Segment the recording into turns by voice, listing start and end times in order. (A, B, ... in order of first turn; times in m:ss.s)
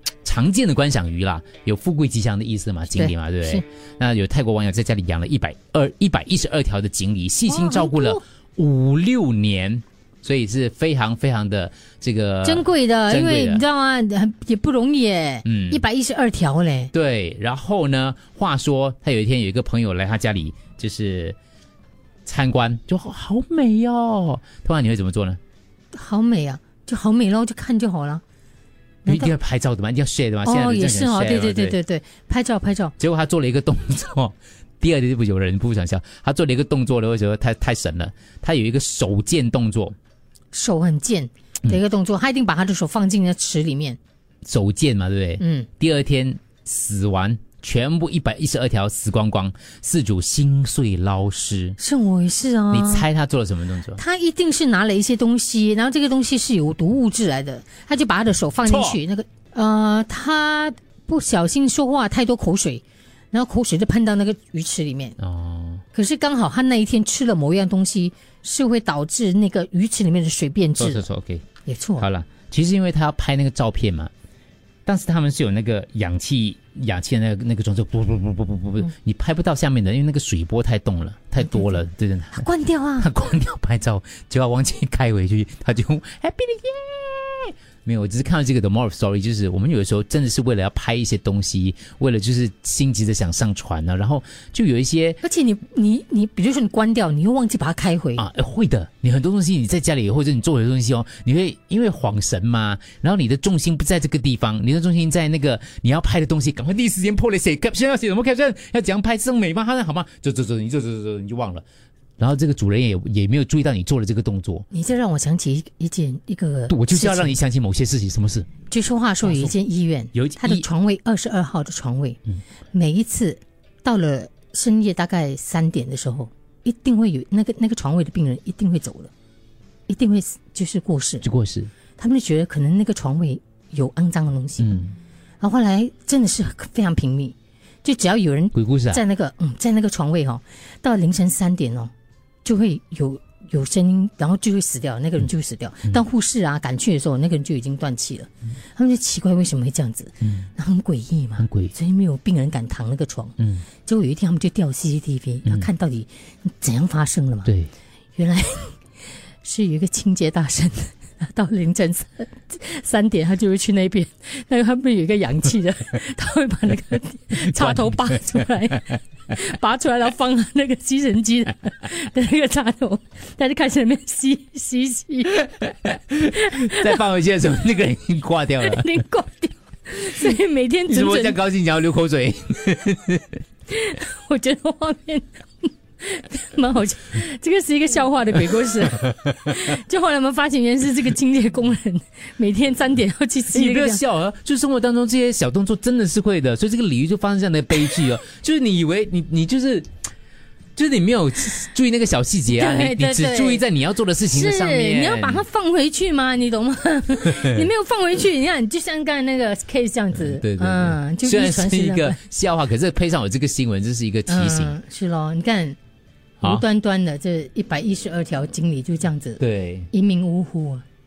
0:00.2-0:13.6 A
0:02.9-0:03.6 B
0:07.5-0:08.2 B
0:12.4-0:16.9 B
0:15.4-0:15.8 A
0:16.9-0:21.4 A
0:22.2-0:25.4 A
0:25.9-0:28.2 B
0:29.0-0:29.3 B
0:29.1-0:31.8 A
0:30.4-0:32.9 B
0:33.0-0:39.9 A
0:40.5-0:44.0 B
0:44.4-0:51.8 A
0:45.4-0:45.7 B
0:51.8-0:53.1 B
0:52.7-0:54.0 A
0:54.0-1:05.2 B
0:58.6-0:59.0 A
1:05.2-1:05.8 A
1:05.9-1:11.0 B
1:10.8-1:11.4 A
1:11.6-1:12.1 B
1:12.0-1:14.1 A
1:14.8-1:22.5 A
1:21.4-1:21.8 B
1:22.3-1:23.1 B
1:23.0-1:35.2 A
1:35.2-1:38.2 B
1:38.2-1:51.6 A
1:52.2-1:54.6 A
1:54.7-1:57.3 B
1:56.7-1:58.5 A
1:58.7-2:02.2 B
1:59.2-1:59.5 A
2:00.1-2:00.6 A
2:02.7-2:09.1 B
2:09.9-2:11.2 B
2:11.2-2:11.7 A
2:12.0-2:14.7 B
2:14.6-2:14.9 A
2:15.4-2:21.9 B
2:18.5-2:19.0 A
2:22.4-2:33.3 B
2:31.4-2:31.7 A
2:33.4-2:33.6 A
2:33.8-2:37.5 B
2:37.4-2:37.7 A
2:38.2-2:38.8 B
2:39.4-2:55.4 B
2:47.4-2:48.5 A
2:55.5-2:58.8 A
2:56.3-2:57.0 B
2:58.6-3:01.4 B
3:00.9-3:03.3 A
3:03.7-3:14.0 B
3:13.5-3:19.9 A
3:20.8-3:25.4 A
3:22.5-3:23.6 B
3:24.3-3:32.2 B
3:27.3-3:27.6 A
3:30.2-3:34.8 A
3:34.3-3:35.8 B
3:36.4-3:39.4 B
3:39.4-3:39.9 A
3:39.9-3:40.8 B